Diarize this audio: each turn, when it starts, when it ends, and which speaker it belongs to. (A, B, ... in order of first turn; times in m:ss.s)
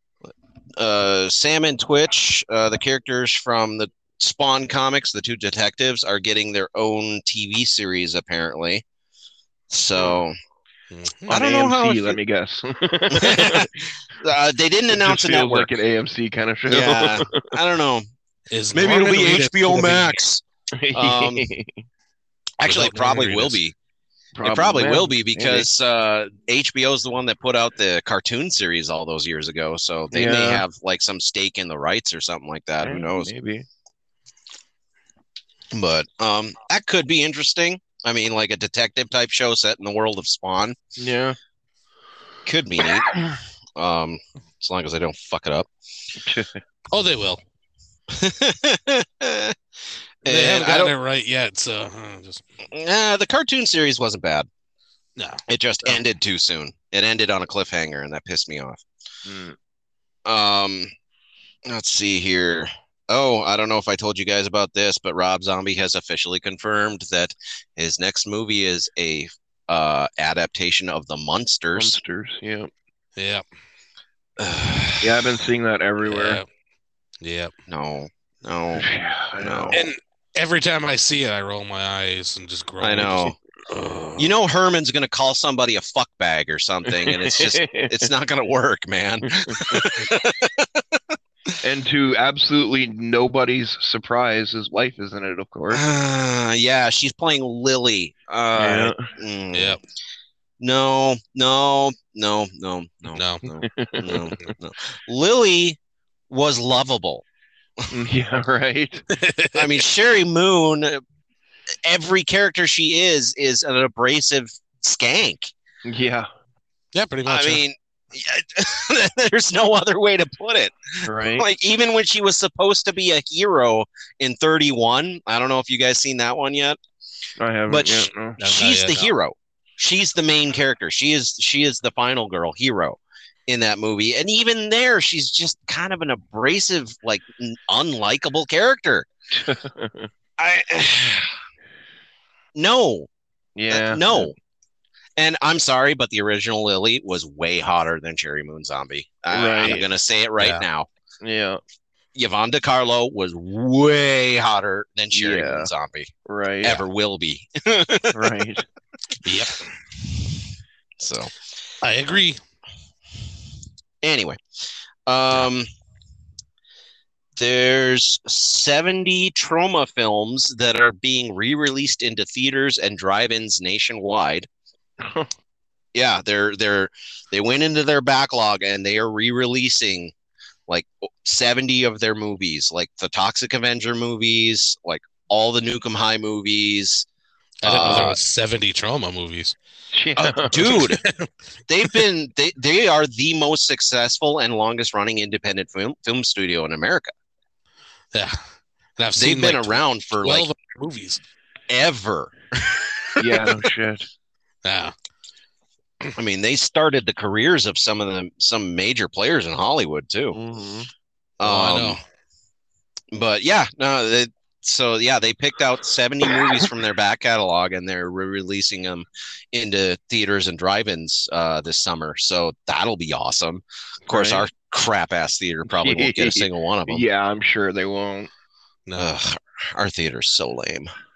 0:00.8-0:08.8 A
0:09.7-0:10.3 A
0:10.9-0:11.4 B
0:11.3-0:12.2 A
0:11.3-0:13.7 C
0:13.1-0:15.7 A
0:14.9-0:17.6 C
0:16.7-0:18.1 A
0:18.5-0:20.2 B
0:18.7-0:21.5 A
0:20.8-0:21.8 C
0:22.6-0:23.7 A
0:22.6-0:23.6 B
0:24.3-0:25.7 C
0:24.4-0:33.3 A
0:30.1-0:30.6 C
0:32.8-0:33.6 C
0:35.7-0:40.8 A
0:41.0-0:41.4 C
0:42.4-0:43.1 A
0:43.1-0:43.4 C
0:43.8-0:45.7 A
0:46.2-0:46.6 C
0:46.9-0:47.4 B
0:48.1-0:49.5 A
0:50.2-0:50.9 A
0:50.2-0:52.4 B
0:52.7-0:54.5 A
0:55.2-0:56.0 B
0:55.5-0:58.8 A
0:59.2-0:59.6 C
1:00.2-1:00.9 A
1:01.7-1:12.0 A
1:11.7-1:12.7 C
1:13.2-1:13.4 B
1:14.4-1:15.3 A
1:15.0-1:16.4 C
1:16.0-1:16.4 B
1:17.2-1:17.5 B
1:17.7-1:18.8 A
1:18.8-1:19.8 C
1:19.4-1:19.8 A
1:19.7-1:24.3 B
1:22.8-1:23.3 A
1:24.2-1:31.6 A
1:26.9-1:28.1 C
1:31.6-1:35.8 C
1:35.7-1:39.8 A
1:38.5-1:39.1 C
1:39.5-1:39.8 B
1:40.6-1:45.8 A
1:43.1-1:43.4 B
1:43.6-1:44.3 C
1:46.3-1:47.2 A
1:47.9-1:49.0 C
1:49.1-1:49.7 B
1:49.5-1:51.0 A
1:51.8-1:55.5 A
1:55.8-1:56.3 C
1:56.9-1:57.6 B
1:57.3-2:06.8 A
2:01.0-2:01.4 C
2:07.4-2:08.4 C
2:07.7-2:19.1 A
2:08.4-2:09.1 B
2:19.3-2:20.1 C
2:20.4-2:21.4 A
2:22.5-2:23.1 A
2:23.6-2:24.3 C
2:23.7-2:24.3 A
2:25.2-2:30.9 A
2:29.3-2:29.8 C
2:30.4-2:30.6 B
2:31.2-2:31.6 C
2:32.1-2:36.1 A
2:35.1-2:35.7 C
2:36.2-2:36.8 C
2:36.6-2:38.4 A
2:38.1-2:38.6 C
2:39.2-2:39.7 B
2:41.0-2:41.3 A
2:41.8-2:42.4 B
2:44.0-2:44.4 A
2:45.0-2:45.7 A
2:47.4-2:54.5 A
2:55.0-2:55.3 C
2:55.9-3:00.1 A
3:00.7-3:07.1 A
3:07.6-3:09.6 B
3:07.6-3:08.2 A
3:07.8-3:08.1 C
3:09.9-3:10.8 C
3:10.2-3:11.0 A
3:10.6-3:11.3 B
3:11.7-3:17.1 A
3:18.1-3:18.4 B
3:19.0-3:21.2 B
3:19.2-3:20.5 A
3:21.7-3:23.4 A
3:23.2-3:24.0 C
3:24.6-3:24.9 B
3:26.2-3:30.4 A
3:30.3-3:30.9 C
3:31.4-3:32.0 A
3:31.4-3:32.0 B
3:33.1-3:47.0 A
3:44.1-3:44.4 C
3:45.7-3:48.3 C
3:48.9-3:49.2 B
3:49.0-3:50.9 A